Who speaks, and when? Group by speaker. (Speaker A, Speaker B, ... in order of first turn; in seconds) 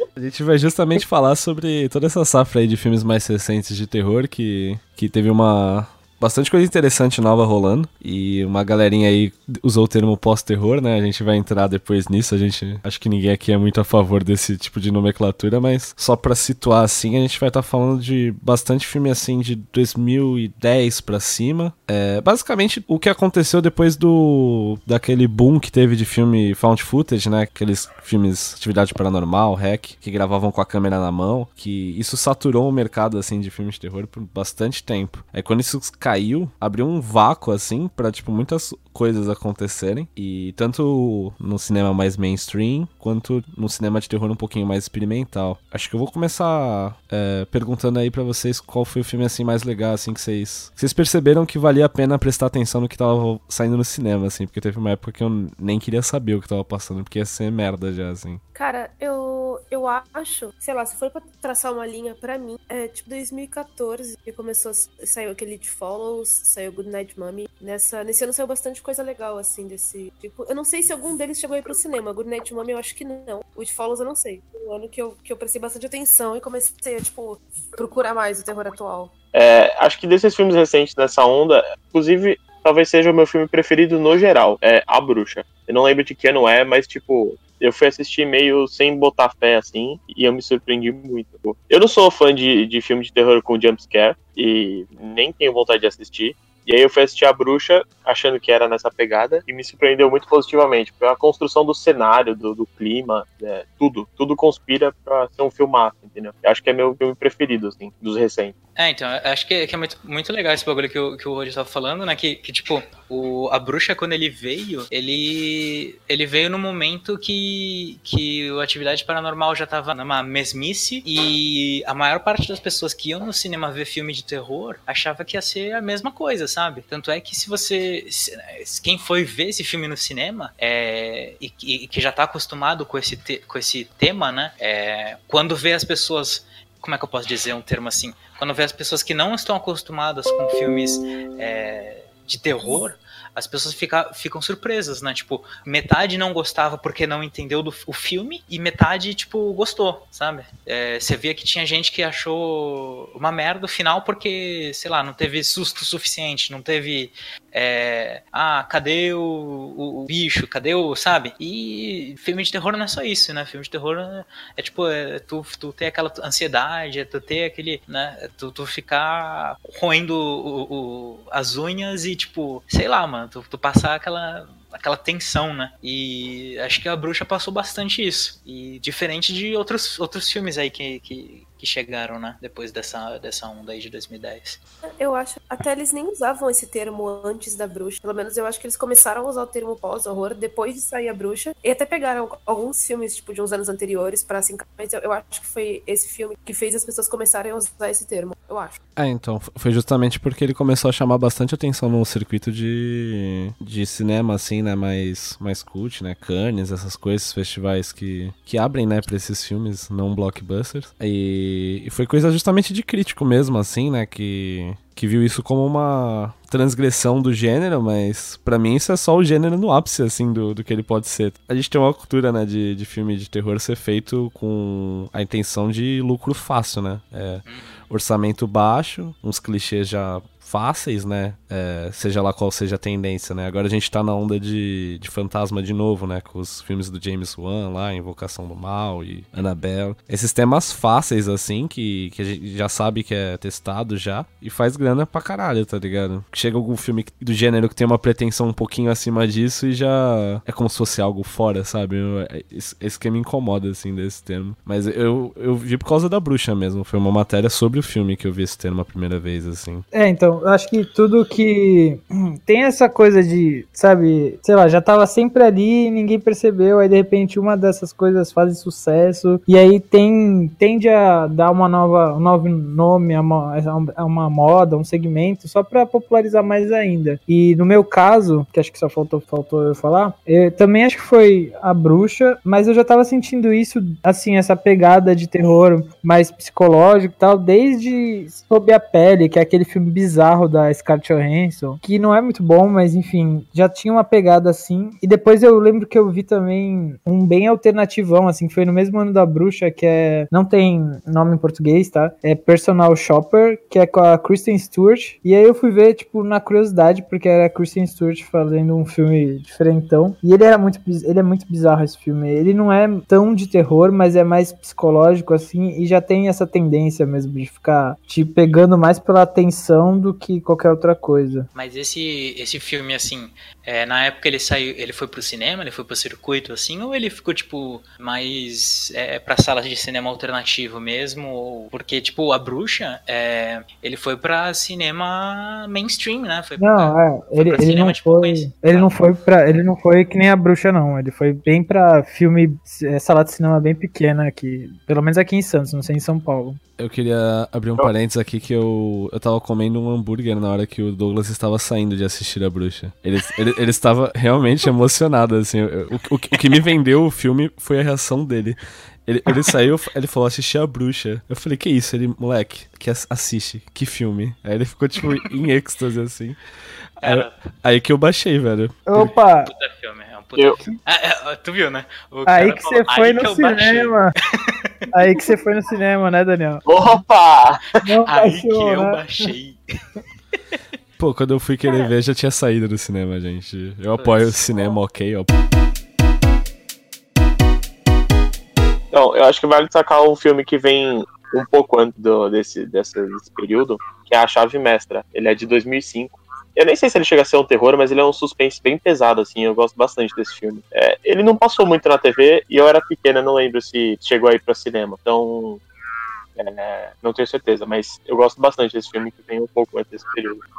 Speaker A: 0.1-58.4, 198.9-259.9, 346.8-366.4, 367.0-369.1, 381.0-385.3
Speaker B: 58.5-79.1, 185.0-198.8
Speaker C: 79.3-108.5, 376.6-377.8, 388.9-405.6, 406.4-410.4
Speaker D: 108.8-184.6, 227.4-227.8, 321.5-339.0, 367.0-367.3, 369.4-374.9, 378.1-379.6, 380.3-380.6, 384.0-384.4
Speaker E: 259.9-321.5, 336.6-346.6, 368.9-369.5, 372.2-374.1, 374.9-376.6, 377.8-379.3